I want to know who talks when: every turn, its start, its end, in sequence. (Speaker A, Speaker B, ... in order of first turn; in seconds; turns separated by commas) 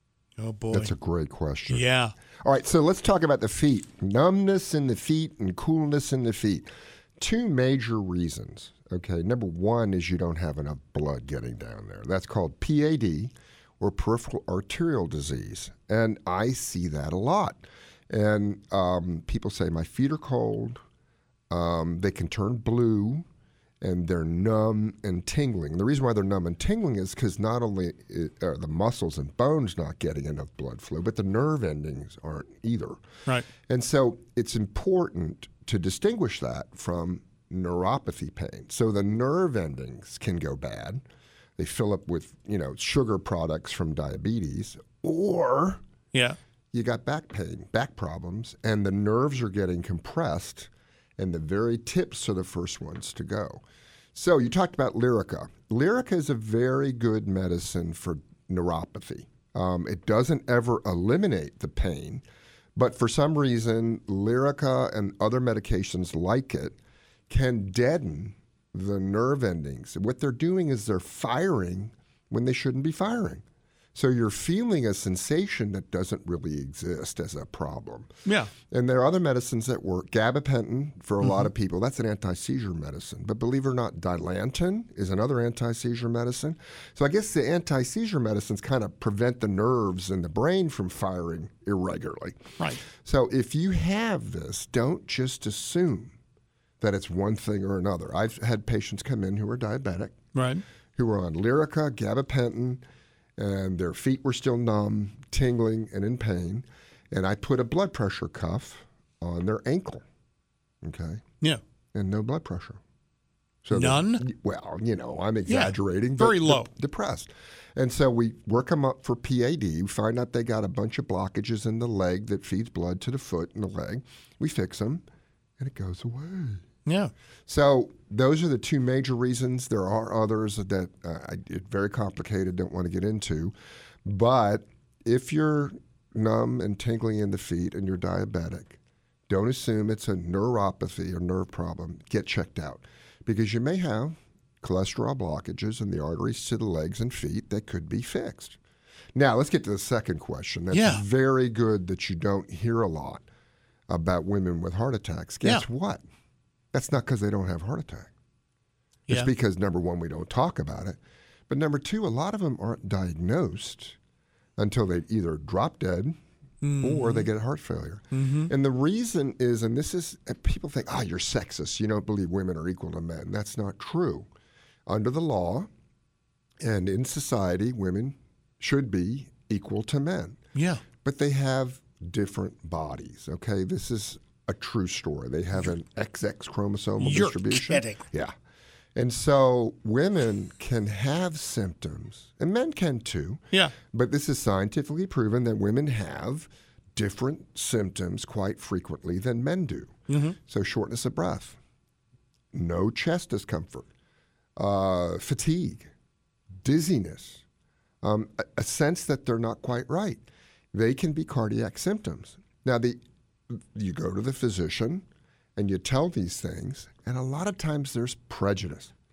Speaker A: 0.4-0.9, Speaker B: 0.7-1.9, Speaker A: 1.7-2.1, Speaker B: 2.4-20.8, Speaker B: 21.5-23.2, Speaker B: 23.8-33.0, Speaker B: 33.7-41.0, Speaker B: 41.6-45.8, Speaker B: 46.7-53.6, Speaker B: 54.1-62.2, Speaker B: 62.8-66.8, Speaker B: 67.3-73.4, Speaker B: 73.9-78.1, Speaker A: 78.2-78.5, Speaker B: 78.7-96.1, Speaker A: 81.2-81.5, Speaker B: 96.8-100.2, Speaker A: 100.3-100.6, Speaker B: 101.0-102.8, Speaker B: 103.4-110.0, Speaker B: 110.8-111.2, Speaker B: 111.9-112.8, Speaker B: 113.6-125.0, Speaker A: 113.7-114.2, Speaker A: 115.5-116.7, Speaker B: 125.6-126.6, Speaker A: 126.9-127.1, Speaker B: 127.5-148.6, Speaker B: 149.1-153.2, Speaker A: 150.7-151.0, Speaker B: 153.9-156.0, Speaker B: 156.7-158.1, Speaker B: 159.1-161.0, Speaker B: 161.5-164.0, Speaker B: 164.6-166.2, Speaker A: 166.6-167.2, Speaker B: 166.8-174.3, Speaker A: 168.1-168.5, Speaker B: 174.9-175.7, Speaker B: 176.6-180.4, Speaker A: 180.5-180.8, Speaker B: 181.0-188.3, Speaker A: 187.0-188.0, Speaker B: 188.9-201.6, Speaker A: 200.1-200.4, Speaker B: 202.5-203.9, Speaker B: 204.6-205.9, Speaker B: 206.6-207.4, Speaker B: 208.0-215.0, Speaker B: 215.6-218.9